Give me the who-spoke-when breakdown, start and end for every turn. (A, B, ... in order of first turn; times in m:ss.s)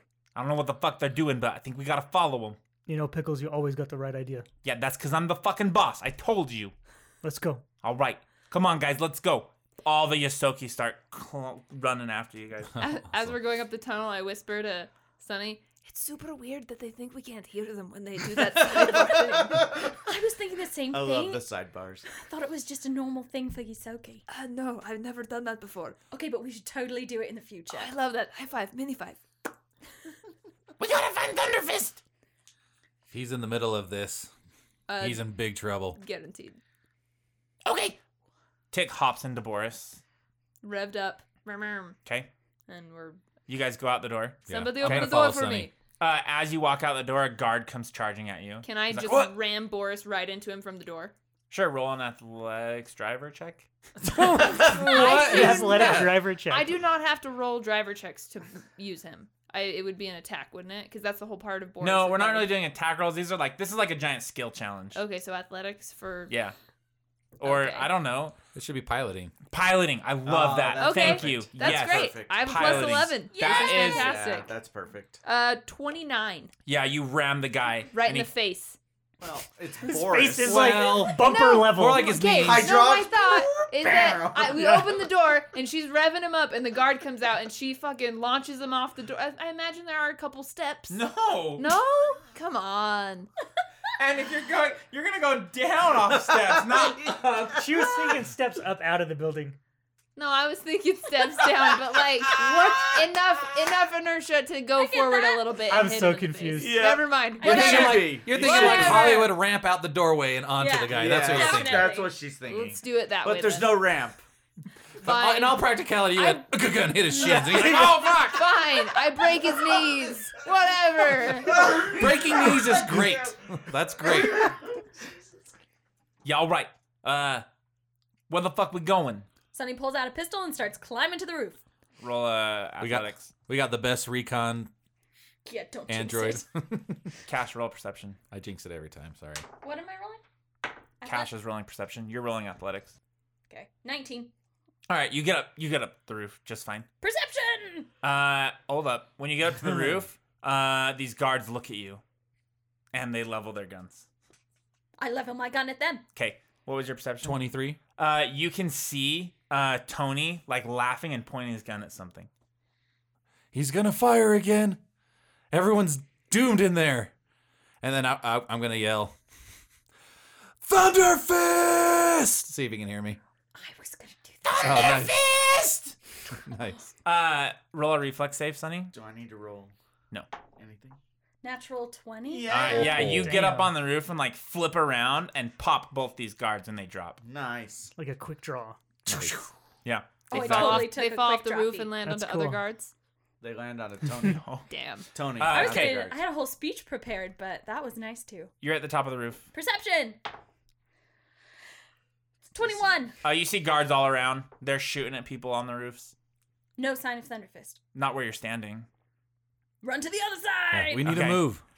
0:00.3-0:02.6 A
0:02.9-0:04.4 B
0:04.6-0:06.7 A
0:07.2-0:07.6 B
0:07.8-0:12.8 A
0:12.8-0:13.4 C
0:12.8-0:19.6 D
0:18.7-0:21.4 E
0:18.7-0:19.8 F
0:20.9-0:22.1 F
0:22.1-0:24.2 E
0:24.3-0:26.0 D
0:26.1-0:27.9 E
0:27.7-0:29.2 D
0:30.8-0:32.0 A
0:33.1-0:34.3 C
0:34.9-0:35.3 D
0:35.0-0:36.0 C
0:35.9-0:36.6 D
0:37.6-0:38.0 A
0:38.7-0:40.0 A
0:40.6-0:42.0 D
0:42.7-0:43.2 D
0:43.5-0:45.1 A
0:44.5-0:45.7 C
0:44.5-0:45.7 D
0:46.0-0:49.3 A
0:48.6-0:51.1 D
0:51.5-0:53.7 A
0:54.0-0:56.0 F
0:54.0-0:56.0 C
0:54.6-1:02.5 D
0:55.0-0:56.7 B
1:01.8-1:05.0 A
1:04.9-1:06.3 D
1:06.3-1:06.5 A
1:07.4-1:08.3 A
1:07.4-1:07.9 D
1:08.5-1:09.3 C
1:09.5-1:14.1 A
1:10.2-1:13.1 F
1:10.8-1:14.5 D
1:13.2-1:14.2 E
1:13.8-1:15.2 F
1:15.2-1:16.5 D
1:16.6-1:18.3 A
1:17.9-1:18.8 D
1:19.2-1:21.0 F
1:19.8-1:22.2 B
1:20.4-1:22.7 C
1:21.2-1:31.0 D
1:22.4-1:25.1 F
1:30.9-1:31.7 A
1:31.6-1:33.3 D
1:34.0-1:37.6 A
1:36.3-1:38.2 F
1:37.6-1:39.6 B
1:40.2-1:49.3 D
1:41.4-1:43.2 F
1:44.8-1:45.6 E
1:45.7-1:46.8 B
1:46.6-1:49.2 F
1:47.4-1:51.9 C
1:47.4-1:49.3 E
1:50.5-1:52.2 E
1:50.9-1:54.2 F
1:52.4-1:53.9 D
1:55.0-1:56.5 D
1:55.0-1:58.6 C
1:57.1-2:01.7 D
1:57.2-1:58.0 F
2:01.2-2:05.2 F
2:01.4-2:04.5 C
2:06.2-2:07.4 A
2:08.3-2:09.3 A
2:09.5-2:11.6 E
2:12.0-2:13.3 A
2:12.8-2:14.7 C
2:15.4-2:16.4 E
2:15.9-2:17.1 C
2:17.3-2:18.2 A
2:18.3-2:19.4 C
2:19.6-2:20.2 E
2:21.0-2:21.3 E
2:21.0-2:23.0 A
2:23.5-2:24.3 E
2:24.9-2:26.9 A
2:27.0-2:27.9 E
2:28.0-2:32.0 A
2:29.6-2:30.0 F
2:32.9-2:34.1 A
2:35.0-2:36.0 E
2:36.2-2:37.4 A
2:37.2-2:37.8 C
2:38.0-2:42.3 A
2:43.5-2:44.8 C
2:45.5-2:47.1 C
2:47.8-2:49.2 C
2:50.6-2:53.2 C
2:53.5-2:54.7 E
2:54.4-2:55.9 A
2:54.6-2:55.2 C
2:56.3-2:56.9 C
2:57.0-2:58.9 A
2:58.9-2:59.7 F
3:00.6-3:01.0 F
3:01.4-3:02.9 E
3:02.3-3:03.2 F
3:02.5-3:07.2 A
3:02.7-3:03.4 C
3:03.2-3:03.7 B
3:07.2-3:07.9 F
3:08.0-3:08.8 B
3:09.1-3:09.4 C
3:09.1-3:11.0 A
3:10.3-3:12.0 E
3:10.3-3:12.9 D
3:12.0-3:12.6 B
3:13.4-3:14.5 F
3:14.2-3:14.6 A
3:14.7-3:15.1 D
3:15.1-3:16.2 F
3:15.4-3:16.1 A
3:15.5-3:18.5 E
3:18.6-3:19.5 A
3:19.5-3:20.2 E
3:22.5-3:23.2 E
3:23.2-3:26.1 A
3:26.8-3:27.8 E
3:27.9-3:28.9 A
3:29.8-3:31.2 E
3:30.7-3:31.6 C
3:31.1-3:31.4 A